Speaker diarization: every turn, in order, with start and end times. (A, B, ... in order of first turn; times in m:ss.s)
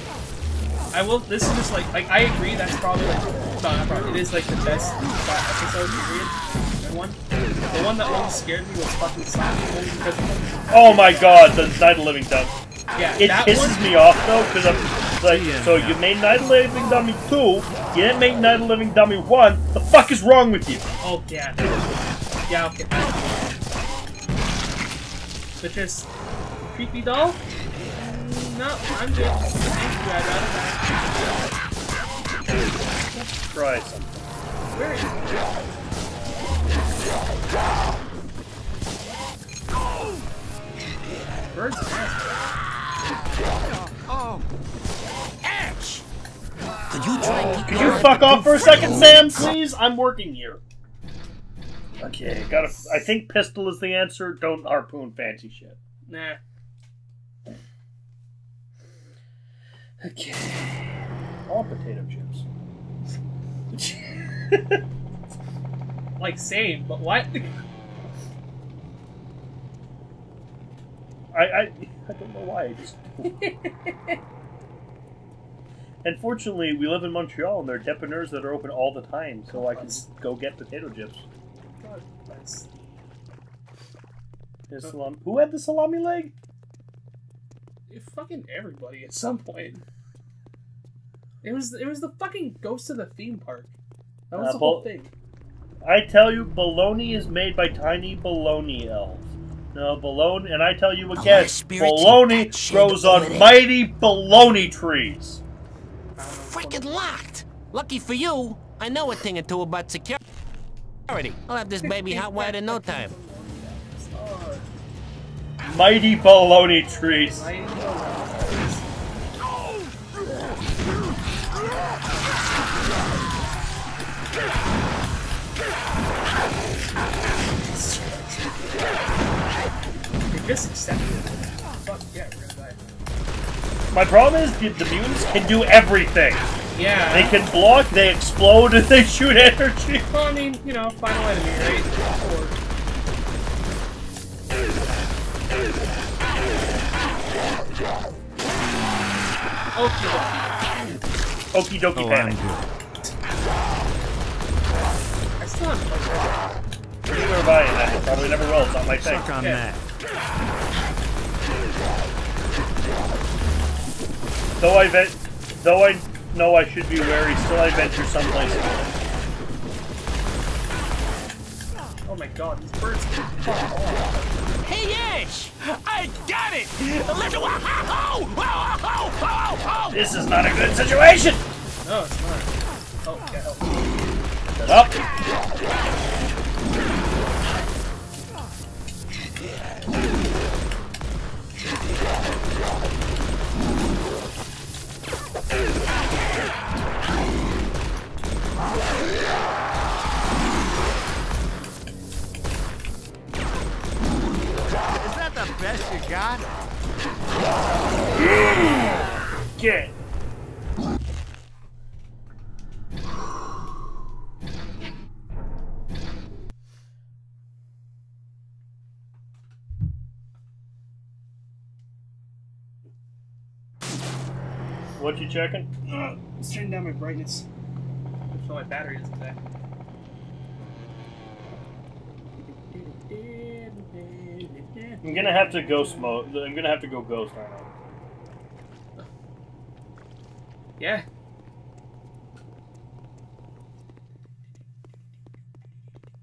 0:00.9-0:07.2 A
0:07.7-0:11.6 A
0:10.7-0:12.6 B
0:13.0-0:13.8 A
0:13.2-0:20.9 B
0:15.2-0:16.2 C
0:21.0-0:21.8 A
0:22.5-0:23.6 A
0:25.6-0:27.4 A
0:28.0-0:31.5 A
0:33.1-0:34.3 B
0:34.7-0:35.7 A
0:41.5-0:42.6 A
0:45.4-0:46.0 D
0:46.9-0:49.5 D
0:47.6-0:50.6 B
0:52.0-0:55.8 B
0:56.1-0:56.4 A
1:00.0-1:02.4 B
1:03.7-1:04.8 B
1:06.2-1:07.5 A
1:11.3-1:13.4 B
1:13.3-1:14.2 A
1:16.0-1:21.2 B
1:19.5-1:20.0 A
1:21.8-1:22.7 A
1:24.7-1:26.3 B
1:27.9-1:29.8 A
1:31.4-1:33.7 A
1:34.3-1:35.1 A
1:34.4-1:34.9 B
1:35.8-1:45.4 B
1:41.2-1:43.6 D
1:46.2-1:47.0 A
1:46.5-1:50.2 D
1:51.1-1:53.1 D
1:51.8-1:54.7 A
1:55.6-1:57.5 B
1:57.2-1:58.9 A
2:07.6-2:08.9 A
2:10.3-2:12.8 A
2:13.9-2:16.5 B
2:16.7-2:17.4 A
2:17.1-2:20.1 B
2:20.1-2:22.6 A
2:29.7-2:30.9 A
2:31.5-2:32.4 B
2:32.0-2:32.7 C
2:35.4-2:36.6 A
2:37.1-2:39.3 B
2:38.5-2:39.7 A
2:39.0-2:39.8 C
2:44.6-2:48.9 B
2:52.0-2:54.6 A
2:54.6-3:00.0 D
2:59.9-3:01.4 B
3:01.8-3:03.8 A
3:04.6-3:05.0 B
3:24.9-3:26.5 C
3:28.0-3:29.1 A
3:28.3-3:28.9 B
3:29.6-3:29.9 B
3:45.0-3:45.7 B
3:45.9-3:47.5 A
3:48.3-3:49.6 A
3:52.4-3:56.2 A
3:55.0-3:57.7 B
4:00.8-4:01.1 A